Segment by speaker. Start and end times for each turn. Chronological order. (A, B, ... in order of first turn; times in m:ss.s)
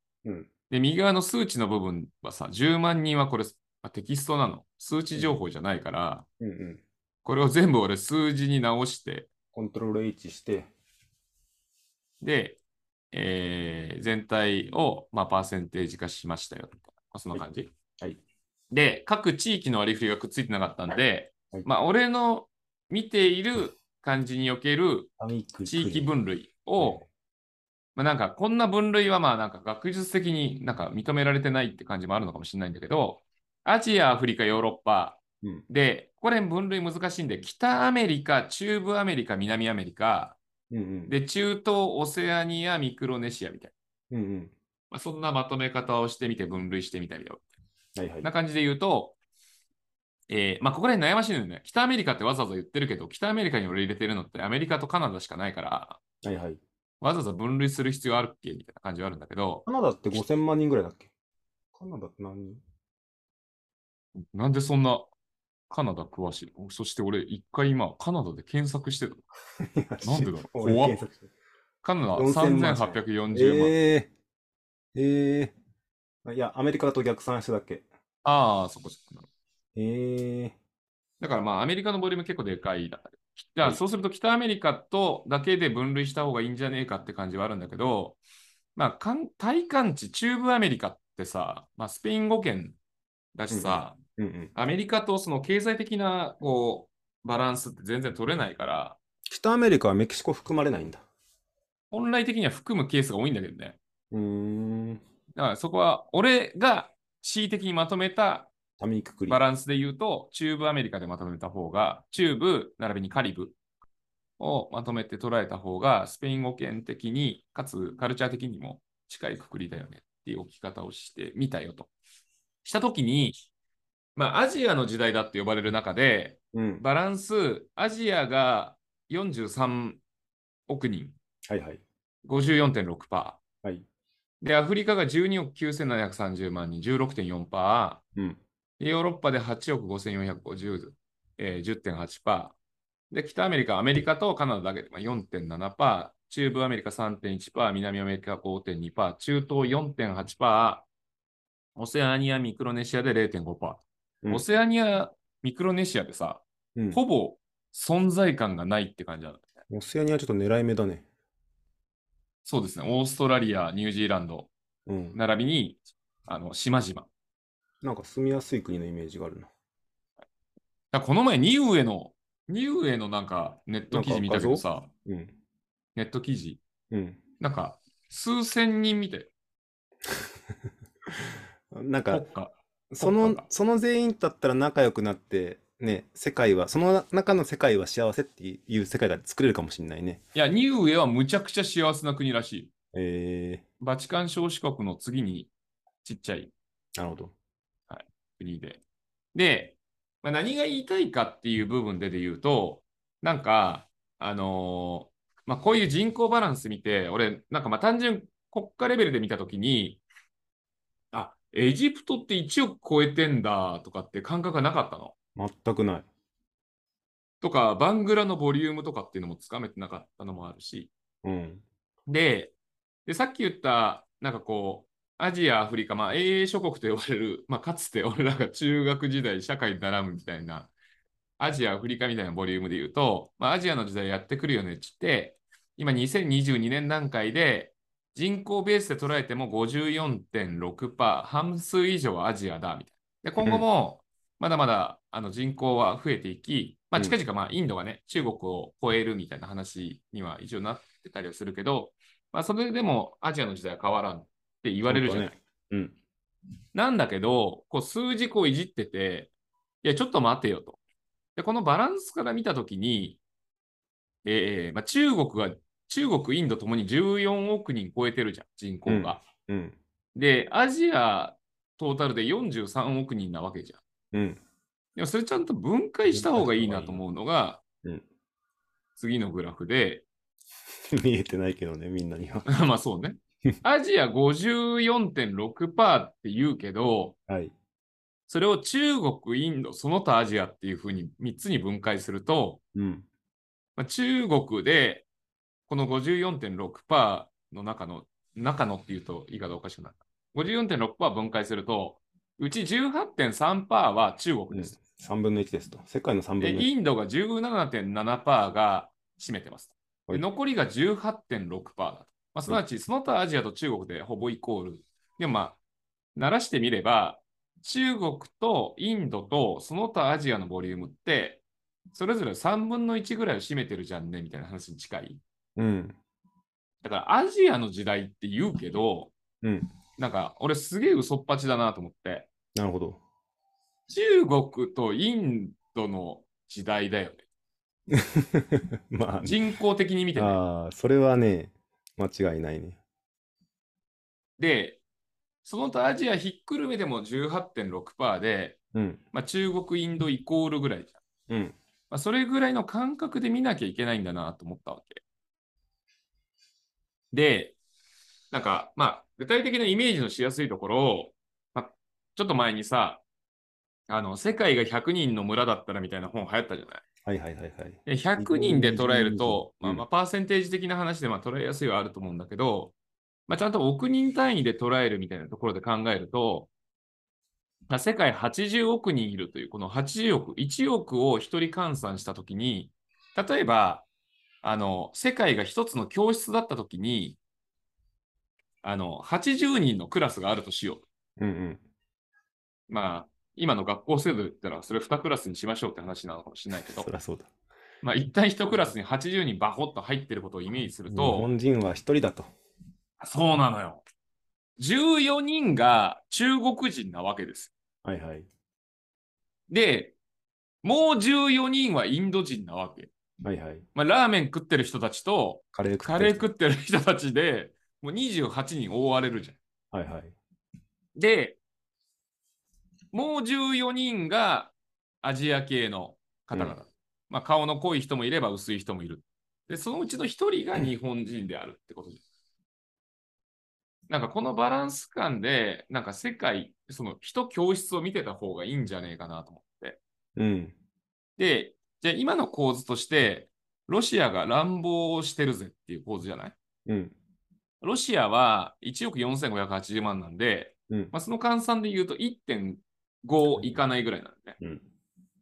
0:00.2-0:00.5 A
0:00.7-0:06.2 B
0:06.4-0:06.8 A
0:07.2-0:09.3 B
0:09.5-0:10.7 A
0:12.2-0:12.6 B
0:13.1-0:17.7 B
0:18.7-0:25.1 B
0:25.2-0:26.1 A
0:25.6-0:27.0 B
0:26.8-0:27.0 A
0:28.0-0:40.4 B
0:40.7-0:41.1 A
0:41.1-0:43.7 B
0:44.1-0:44.5 A
0:44.9-0:47.4 B
0:48.0-0:48.3 A
0:48.2-0:49.2 B
0:50.3-0:56.0 B
0:56.2-0:56.6 A
0:57.0-0:59.6 B
0:59.6-1:01.1 A
1:01.7-1:02.6 A
1:04.3-1:05.1 B
1:05.7-1:09.2 B
1:09.6-1:11.3 A
1:10.0-1:11.0 B
1:11.8-1:13.8 B
1:12.2-1:14.1 A
1:14.9-1:15.5 A
1:16.2-1:17.8 A
1:18.2-1:19.3 B
1:19.8-1:20.6 A
1:21.2-1:28.2 B
1:28.8-1:32.8 B
1:33.3-1:34.0 B
1:33.5-1:34.5 A
1:34.5-1:39.0 B
1:39.3-1:41.0 A
1:41.9-1:43.8 B
1:44.1-1:45.0 A
1:45.3-1:48.5 B
1:48.8-1:49.4 A
1:49.3-1:53.6 B
1:54.4-2:01.9 B
2:02.6-2:03.4 B
2:04.2-2:10.0 B
2:06.5-2:06.8 A
2:10.7-2:11.2 B
2:11.5-2:11.8 A
2:12.2-2:13.4 B
2:14.4-2:18.0 B
2:18.2-2:18.4 A
2:18.8-2:22.6 B
2:23.1-2:30.9 B
2:31.8-2:39.5 B
2:36.7-2:37.0 A
2:39.7-2:41.0 A
2:42.4-2:44.5 B
2:44.8-2:45.2 A
2:45.1-2:47.1 B
2:47.8-2:49.5 A
2:50.9-2:54.9 B
2:53.9-2:55.3 A
2:56.0-2:56.6 B
2:56.9-2:57.2 A
2:57.4-2:59.3 B
3:01.1-3:02.2 A
3:02.1-3:03.4 B
3:02.9-3:10.2 A
3:10.3-3:12.7 B
3:12.9-3:13.6 A
3:13.8-3:15.5 B
3:16.0-3:16.5 B
3:17.0-3:17.3 A
3:17.9-3:18.8 B
3:19.3-3:30.0 B
3:31.1-3:35.1 B
3:35.4-3:36.1 A
3:37.4-3:40.9 B
3:41.2-3:41.6 A
3:42.1-3:42.5 B
3:43.0-3:50.7 B
3:51.4-4:15.4 B
4:14.8-4:15.9 A
4:16.7-4:19.3 B
4:19.8-4:20.8 B
4:21.4-4:23.2 B
4:24.2-4:29.2 B
4:28.9-4:29.8 A
4:30.1-4:33.8 B
4:34.1-4:34.4 A
4:35.0-4:37.6 B
4:36.1-4:37.0 A
4:39.0-4:40.0 B
4:40.9-4:42.4 A
4:42.4-4:47.1 B
4:47.3-4:47.5 A
4:48.3-4:52.6 B
4:52.7-4:53.0 A
4:53.8-4:55.0 B
4:55.7-5:04.7 B
5:04.5-5:06.7 A
5:06.4-5:15.6 B
5:16.2-5:25.2 B
5:25.6-5:26.0 A
5:26.8-5:29.1 B
5:29.4-5:29.7 A
5:30.0-5:32.3 B
5:32.5-5:33.0 A
5:33.9-5:37.2 B
5:37.9-5:39.4 A
5:39.2-5:40.4 B
5:40.2-5:42.8 A
5:44.4-5:44.8 B
5:45.4-5:48.6 B
5:48.7-5:49.0 A
5:49.1-5:51.0 B
5:51.3-5:51.6 A
5:51.9-5:55.0 B
5:57.1-5:57.6 B
5:58.3-6:03.0 B
6:03.9-6:06.8 B
6:07.0-6:09.8 A
6:07.8-6:12.7 B
6:13.3-6:16.5 B
6:17.7-6:23.8 B
6:24.4-6:27.2 B
6:28.6-6:30.8 B
6:31.2-6:31.6 A
6:32.7-6:36.9 B
6:36.6-6:37.3 A
6:37.8-6:41.3 B
6:40.9-6:42.3 A
6:43.0-6:43.8 B
6:44.6-6:47.5 B
6:47.8-6:48.3 A
6:49.5-6:49.9 B
6:50.6-6:52.9 B
6:53.2-6:53.6 A
6:53.7-6:59.4 B
6:55.5-6:56.3 A
6:59.7-7:00.2 A
7:01.0-7:01.4 B
7:02.9-7:12.0 B
7:13.9-7:19.8 B
7:20.2-7:20.6 A
7:21.2-7:26.3 B
7:26.6-7:26.9 A
7:27.6-7:34.4 B